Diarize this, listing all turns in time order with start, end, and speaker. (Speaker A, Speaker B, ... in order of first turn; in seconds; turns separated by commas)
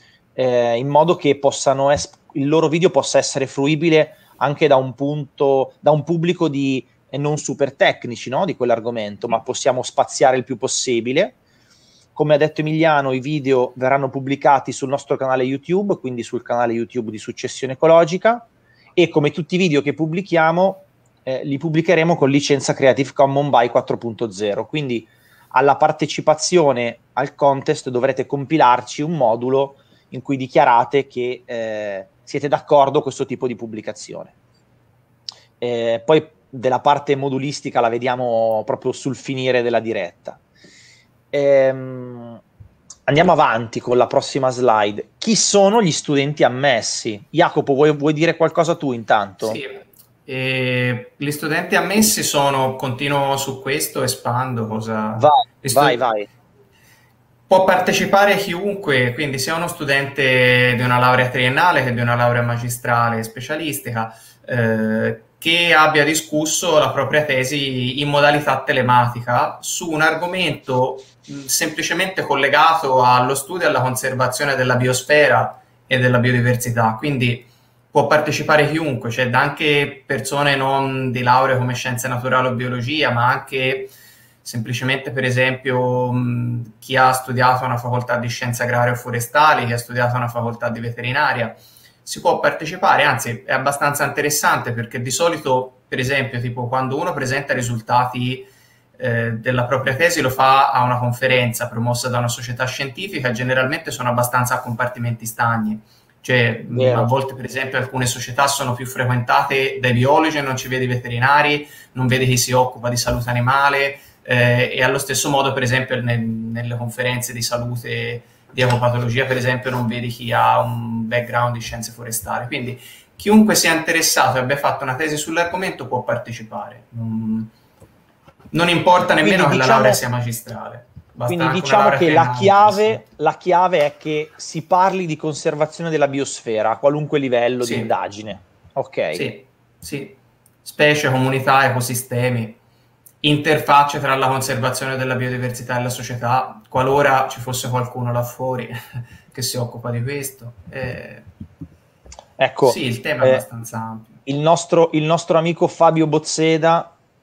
Speaker A: 0.4-11.4, Speaker A: 12.2-34.3, Speaker A: 35.6-40.4, Speaker A: 41.3-42.4, Speaker A: 43.1-49.6, Speaker B: 49.4-56.0, Speaker A: 55.2-56.3, Speaker B: 57.5-127.5, Speaker A: 106.7-107.1, Speaker B: 128.5-133.0, Speaker A: 129.2-130.0, Speaker A: 131.3-139.2, Speaker B: 137.6-137.9, Speaker B: 139.1-142.6, Speaker B: 143.2-151.3, Speaker A: 152.4-153.4, Speaker B: 152.6-154.2, Speaker A: 154.3-157.0